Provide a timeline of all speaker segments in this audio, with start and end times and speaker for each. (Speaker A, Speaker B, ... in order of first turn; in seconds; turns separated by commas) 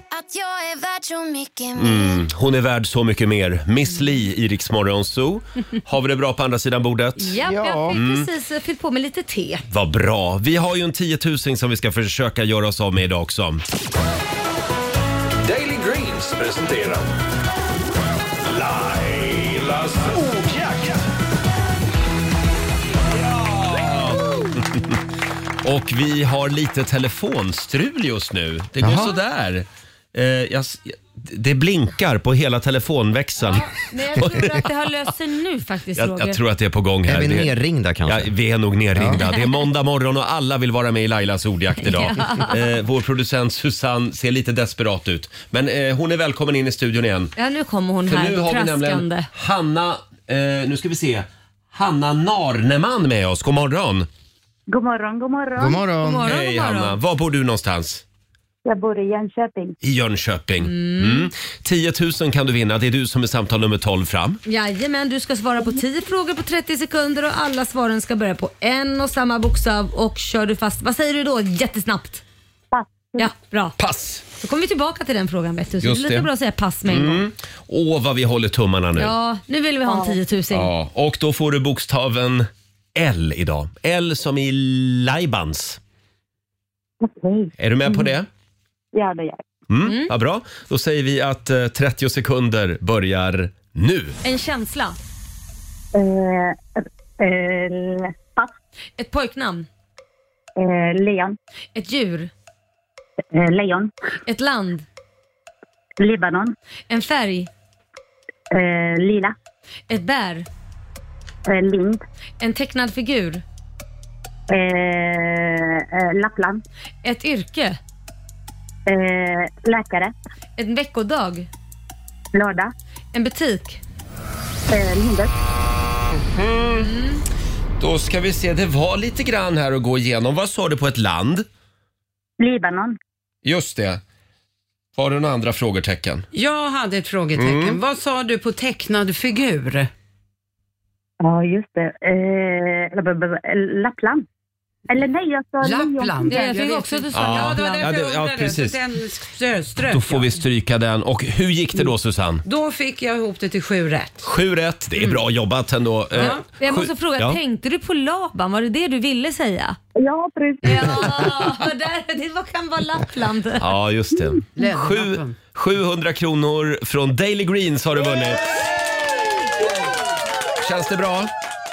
Speaker A: 0.1-2.3, Speaker B: 1.7-7.3, Speaker C: 7.2-9.6, Speaker D: 7.4-8.0, Speaker B: 7.9-8.3, Speaker B: 9.7-13.6, Speaker E: 15.4-17.1, Speaker E: 18.4-21.1, Speaker E: 23.2-23.9, Speaker B: 23.8-25.0, Speaker B: 25.6-34.6, Speaker D: 28.8-29.1, Speaker C: 33.4-36.4, Speaker B: 36.0-37.5, Speaker D: 37.0-38.3, Speaker B: 38.1-47.3, Speaker D: 38.9-39.2, Speaker C: 41.8-42.5, Speaker C: 47.4-49.3, Speaker B: 48.0-54.1, Speaker F: 54.7-55.8, Speaker D: 55.5-56.3, Speaker C: 56.0-56.9, Speaker B: 56.2-58.0, Speaker F: 58.6-59.7, Speaker B: 59.8-64.4, Speaker C: 60.6-61.3, Speaker C: 64.5-72.2, Speaker F: 72.7-73.3, Speaker C: 73.2-73.8, Speaker B: 73.8-74.2, Speaker C: 74.4-77.2, Speaker B: 75.8-76.3, Speaker B: 76.9-79.1, Speaker C: 79.0-80.7, Speaker F: 79.9-80.1, Speaker B: 80.5-85.8, Speaker F: 87.0-88.1, Speaker B: 87.6-88.3, Speaker F: 88.9-89.4, Speaker B: 89.7-94.2, Speaker C: 89.8-90.1, Speaker C: 94.2-95.0, Speaker F: 95.9-98.5, Speaker C: 99.0-99.7, Speaker F: 100.6-101.3, Speaker C: 101.7-102.3, Speaker F: 103.3-103.9, Speaker C: 104.3-104.8, Speaker F: 106.0-106.5, Speaker C: 106.9-107.5, Speaker F: 108.5-109.3, Speaker C: 109.9-110.5, Speaker F: 111.5-112.0, Speaker C: 112.4-113.4, Speaker F: 114.5-116.6, Speaker C: 117.0-117.8, Speaker F: 118.9-120.1, Speaker C: 120.6-121.5, Speaker F: 122.3-122.7, Speaker C: 123.1-123.8, Speaker F: 124.7-125.3, Speaker B: 126.2-126.9, Speaker C: 126.8-127.2, Speaker B: 127.8-131.4, Speaker F: 132.4-133.0, Speaker B: 133.4-134.0, Speaker B: 135.0-136.2, Speaker G: 136.3-139.9, Speaker B: 137.3-137.8, Speaker F: 141.2-144.2, Speaker F: 144.9-146.6, Speaker G: 145.6-150.4, Speaker C: 146.3-147.9, Speaker B: 147.1-148.8, Speaker B: 149.8-152.4, Speaker G: 152.4-154.2, Speaker B: 154.2-157.4, Speaker G: 156.1-156.4, Speaker C: 156.2-159.8, Speaker F: 160.0-161.5, Speaker C: 160.6-163.7, Speaker B: 163.6-168.5, Speaker G: 164.6-165.3, Speaker B: 170.6-171.3